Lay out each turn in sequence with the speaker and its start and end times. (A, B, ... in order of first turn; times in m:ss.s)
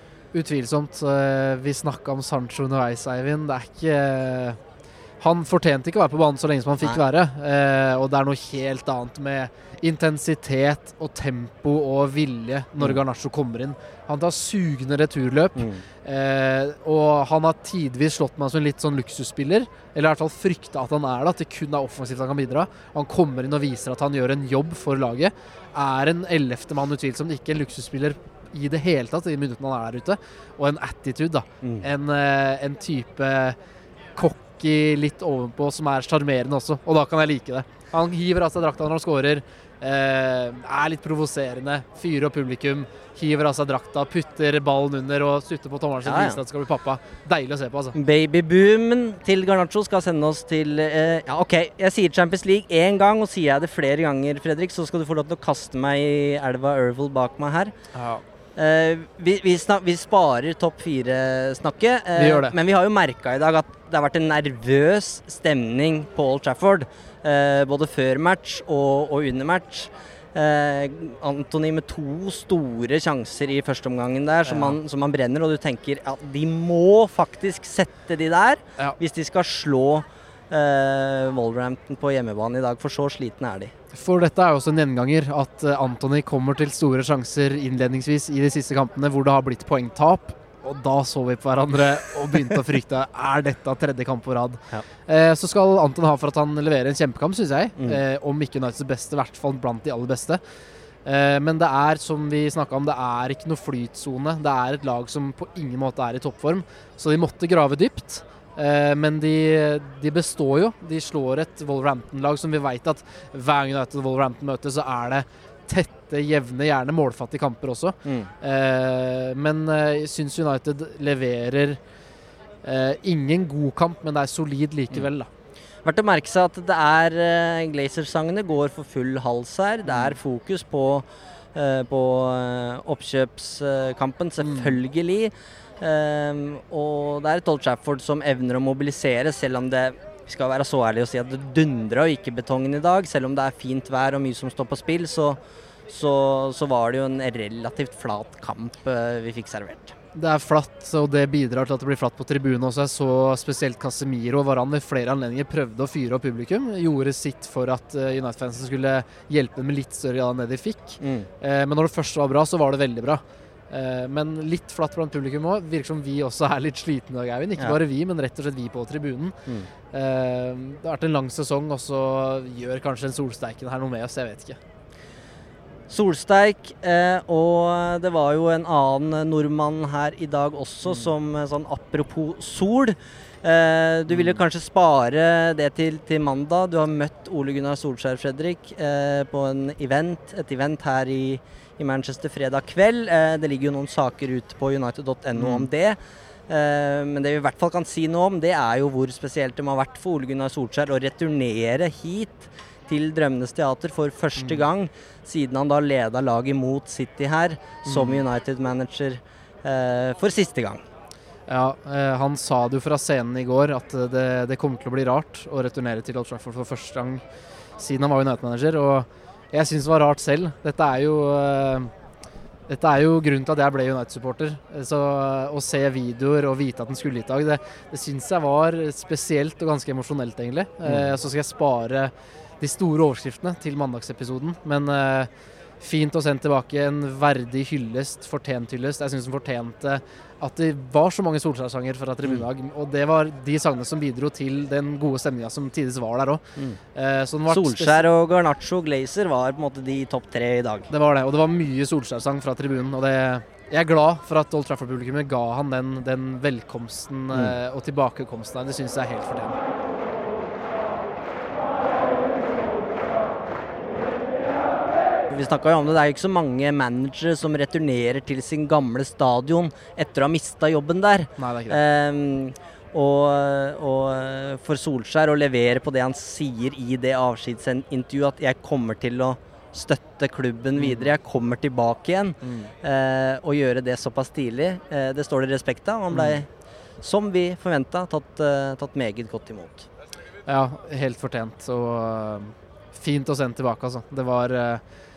0:00.3-0:04.6 A
0:05.2-0:33.6 A
0:15.6-0:15.8 B
0:34.2-0:47.9 A
0:46.0-0:46.4 B
0:48.0-0:57.7 B
0:57.9-0:58.2 A
0:58.6-1:23.7 B
1:02.2-1:02.5 A
1:14.4-1:14.8 A
1:23.9-1:40.4 A
1:41.0-2:01.8 A
2:02.6-2:05.3 A
2:05.8-2:25.4 B
2:09.8-2:10.2 A
2:14.4-2:14.8 A
2:25.9-2:29.9 B
2:30.1-2:49.4 A
2:41.0-2:41.3 B
2:49.9-2:54.6 A
2:55.9-3:16.0 B
3:00.8-3:01.1 A
3:04.1-3:04.4 A
3:15.4-3:15.7 A
3:16.5-3:30.8 B
3:24.4-3:24.7 A
3:27.8-3:28.2 A
3:31.5-3:37.2 A
3:37.8-3:41.9 A
3:42.7-3:55.3 A
3:50.8-3:51.1 B
3:55.8-4:08.0 A
4:07.5-4:10.9 B
4:10.9-4:19.6 A
4:25.3-4:46.5 B
4:31.4-4:31.8 A
4:40.8-4:41.1 A
4:42.4-4:42.7 A
4:46.1-4:46.4 A
4:47.0-4:49.9 B
4:50.4-4:54.8 A